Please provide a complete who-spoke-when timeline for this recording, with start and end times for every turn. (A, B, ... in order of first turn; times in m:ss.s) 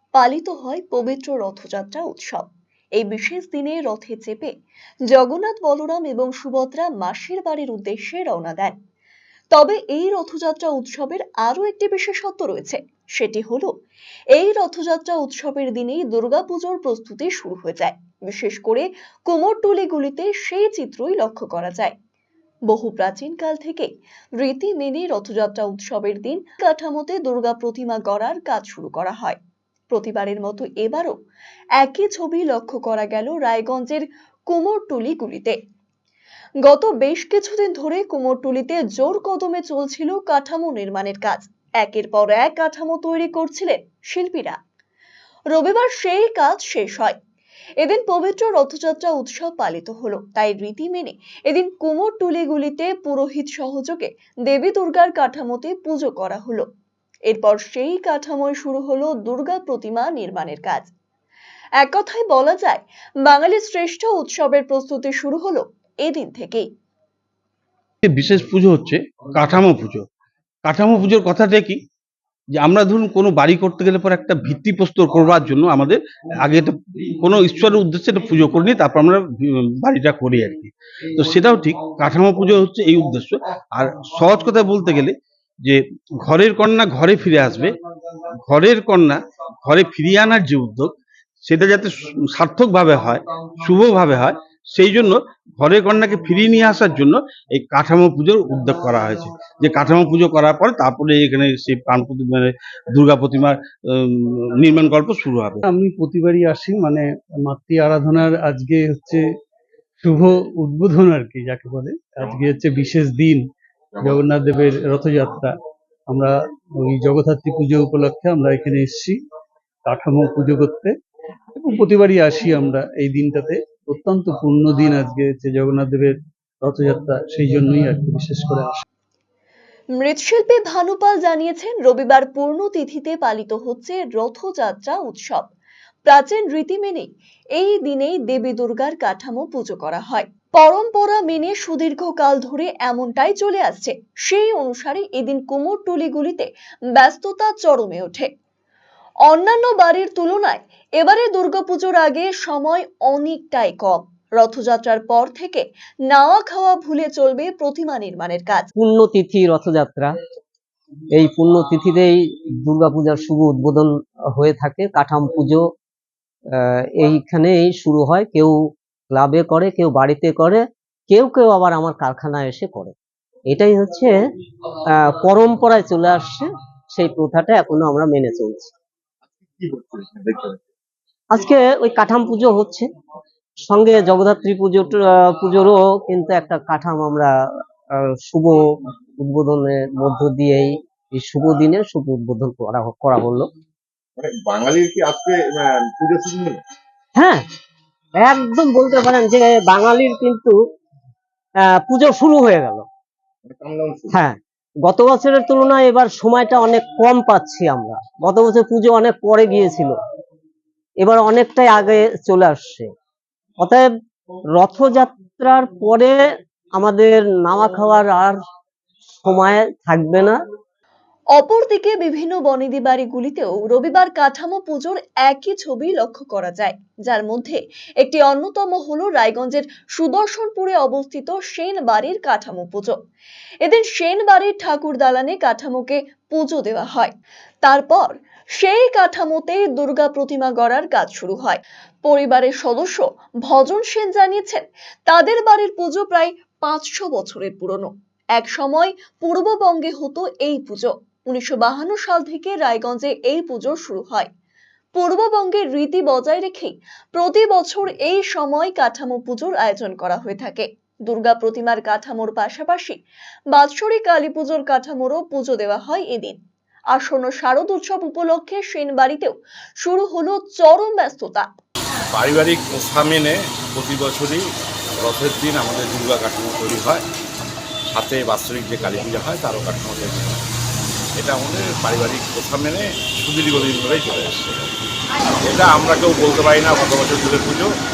0:00.2-0:02.5 A
0:03.0-0:04.5 A
0:05.1-0:08.8 A
0:09.5-0:13.7 A
0:14.4-0:21.9 A
0:22.7-0:29.4 A
0:29.9-0:31.2 A
0:31.8-0:35.6 A
0:36.6-0:44.6 A
0:45.5-0:47.2 A
0:47.8-0:56.7 A
0:57.3-1:00.9 A
1:01.8-1:06.7 A
1:08.0-1:10.0 B
1:10.6-1:11.8 B
1:12.6-1:27.7 B
1:28.5-1:30.9 B
1:31.4-1:45.6 B
1:45.6-1:49.2 C
1:50.0-1:53.5 C
1:54.0-1:55.6 C
1:56.1-1:59.2 C
1:59.9-2:01.0 C
2:01.6-2:08.8 C
2:10.0-2:15.5 A
2:16.1-2:28.3 A
2:29.3-2:38.7 A
2:38.8-2:40.1 D
2:41.1-2:45.6 D
2:46.6-2:48.6 D
2:49.1-2:52.9 D
2:53.5-2:54.1 D
2:55.0-2:58.7 D
2:59.4-3:00.6 E
3:01.3-3:02.9 D
3:03.7-3:07.3 D
3:08.0-3:08.6 D
3:09.2-3:13.5 D
3:14.2-3:16.6 E
3:17.2-3:17.4 D
3:18.2-3:20.6 D
3:21.8-3:22.8 D
3:23.4-3:24.2 E
3:24.1-3:29.9 D
3:31.0-3:32.9 D
3:33.6-3:33.9 D
3:34.6-3:36.2 D
3:36.8-3:38.4 D
3:39.2-3:40.4 D
3:41.4-3:53.0 A
3:53.6-4:14.3 A
4:15.0-4:23.0 A
4:23.5-4:26.4 A
4:26.9-4:31.5 A
4:32.1-4:34.4 F
4:35.0-4:37.0 F
4:37.9-4:40.4 F
4:41.2-4:44.7 F
4:45.4-4:47.7 F